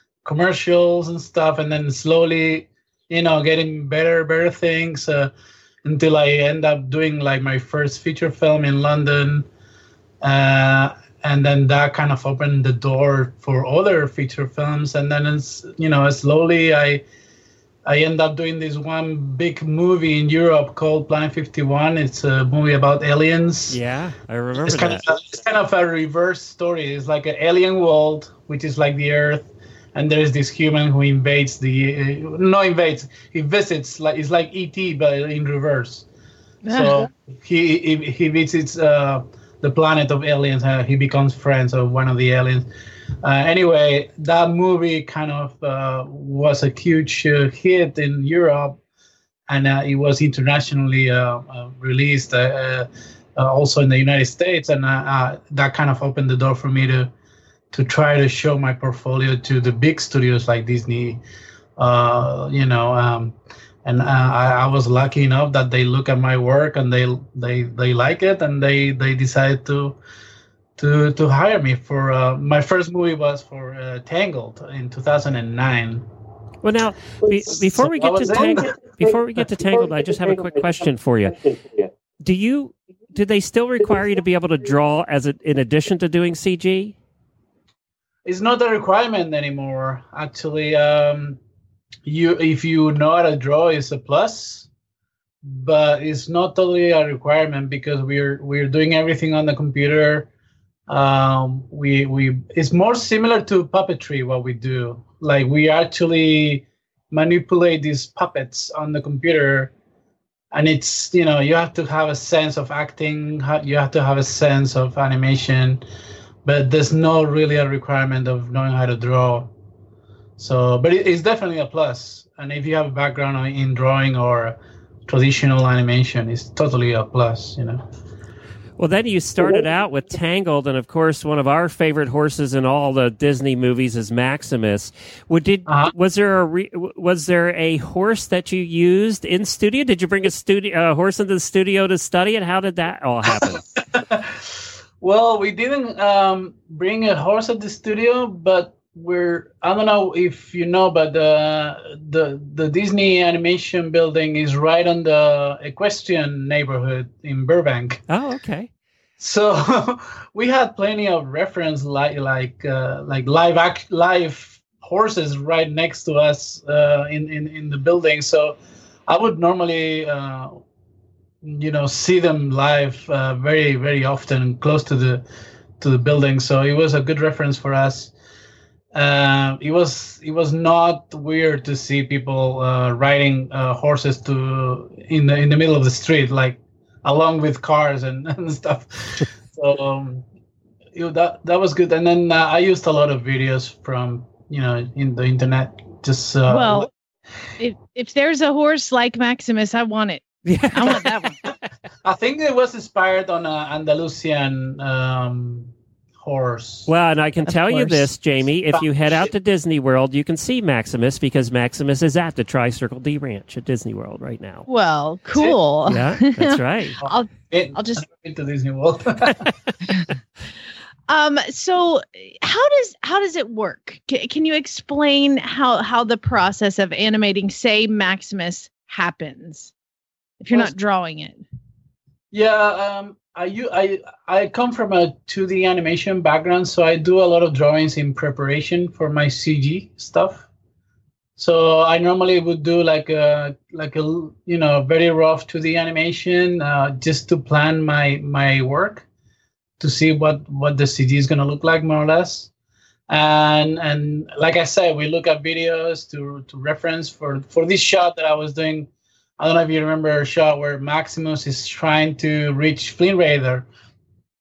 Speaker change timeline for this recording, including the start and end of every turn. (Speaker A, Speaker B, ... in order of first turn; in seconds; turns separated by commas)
Speaker A: 0.2-5.3, Speaker A: 5.8-9.5, Speaker A: 10.2-17.1, Speaker A: 17.9-23.8, Speaker B: 23.7-25.1, Speaker A: 24.6-36.1, Speaker C: 36.6-37.1, Speaker A: 36.7-42.7, Speaker A: 43.2-48.8, Speaker A: 49.5-57.1, Speaker A: 57.7-61.2, Speaker A: 61.8-70.0, Speaker A: 70.8-76.1, Speaker B: 76.6-81.6, Speaker A: 77.7-79.0, Speaker B: 82.2-87.0, Speaker A: 88.2-91.4, Speaker A: 92.0-94.7, Speaker A: 95.5-100.3, Speaker A: 100.9-109.7, Speaker A: 110.5-115.8, Speaker A: 116.5-119.5, Speaker A: 120.4-127.8, Speaker B: 128.8-143.6, Speaker A: 135.7-135.9, Speaker A: 143.4-158.0, Speaker B: 158.1-158.7, Speaker A: 159.2-170.6, Speaker A: 171.4-175.2, Speaker A: 175.8-178.1, Speaker A: 178.9-190.2, Speaker A: 190.9-196.9, Speaker C: 196.5-196.9, Speaker C: 197.6-201.4, Speaker B: 200.5-201.1, Speaker A: 202.0-206.9, Speaker B: 206.9-214.7, Speaker A: 207.5-208.1, Speaker C: 214.7-218.1, Speaker B: 215.9-217.0, Speaker A: 217.0-219.5, Speaker C: 221.1-229.7, Speaker C: 230.4-231.4, Speaker A: 232.3-240.5, Speaker A: 241.4-249.1, Speaker A: 249.8-252.5, Speaker A: 253.1-263.7